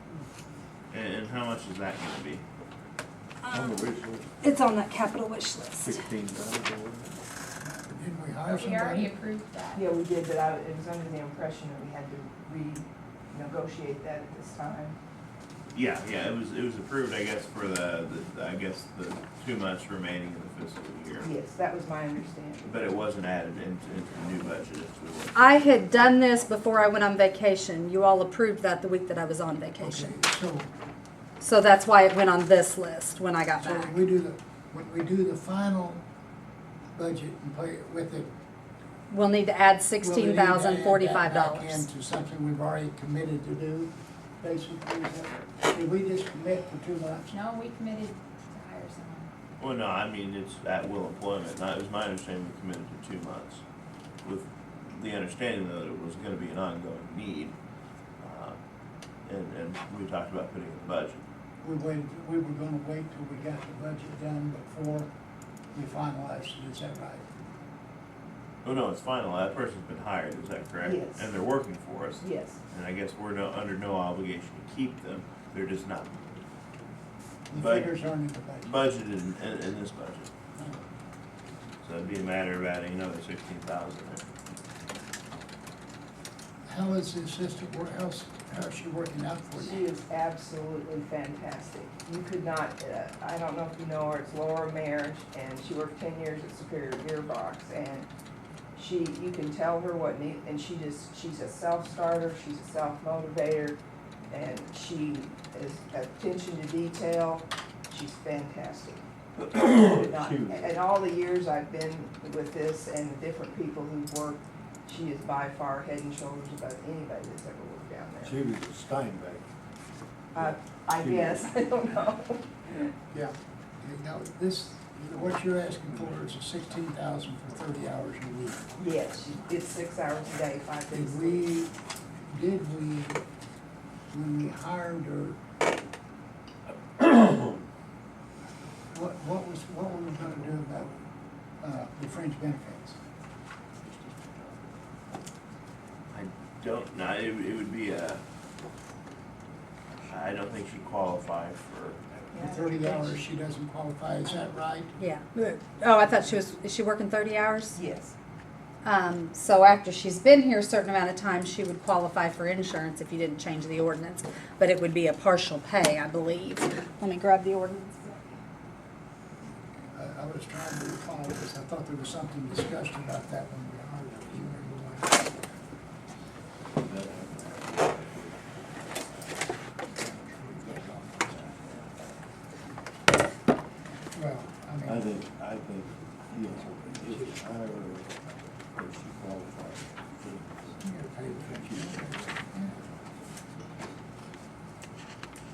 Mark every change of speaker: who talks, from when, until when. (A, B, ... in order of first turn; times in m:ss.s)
0:00.9-0:02.4 A
0:03.5-0:04.3 B
0:04.4-0:06.0 C
0:05.8-0:07.2 B
0:07.6-0:09.2 D
0:08.5-0:09.8 E
0:09.8-0:15.0 F
0:15.7-0:21.3 A
0:21.2-0:22.9 F
0:22.6-0:25.8 A
0:25.4-0:30.2 C
0:29.8-0:30.7 D
0:31.4-0:33.9 C
0:33.6-0:36.0 D
0:37.0-0:38.3 D
0:39.1-0:41.8 C
0:40.0-0:47.5 D
0:47.3-0:49.3 E
0:49.6-0:53.6 A
0:54.2-0:57.6 A
0:58.2-0:58.6 A
0:59.3-1:01.2 A
1:01.6-1:05.1 D
1:05.7-1:07.3 D
1:08.6-1:16.4 A
1:10.8-1:11.3 F
1:12.2-1:12.6 F
1:17.5-1:18.8 D
1:17.5-1:18.0 A
1:18.6-1:20.3 A
1:20.6-1:20.8 D
1:21.8-1:24.2 A
1:26.7-1:29.9 D
1:29.6-1:38.1 F
1:38.8-1:43.8 F
1:44.3-1:49.0 F
1:49.5-1:50.8 B
1:49.6-1:58.4 F
1:58.2-1:59.5 B
2:00.4-2:02.9 F
2:00.4-2:01.5 B
2:03.1-2:08.7 D
2:08.8-2:11.5 F
2:10.9-2:11.8 D
2:12.3-2:13.2 D
2:14.1-2:15.4 D
2:18.9-2:20.9 D
2:21.6-2:23.0 D
2:26.1-2:28.2 A
2:30.1-2:32.0 A
2:32.3-2:33.2 F
2:32.4-2:35.0 D
2:35.0-2:37.8 C
2:37.7-2:38.2 F
2:38.8-2:48.2 C
2:49.9-2:55.3 D
2:56.7-2:59.3 B
3:00.0-3:01.7 D
3:04.1-3:05.1 D
3:04.8-3:10.8 B
3:07.0-3:07.4 D
3:10.8-3:12.8 D
3:11.4-3:12.3 B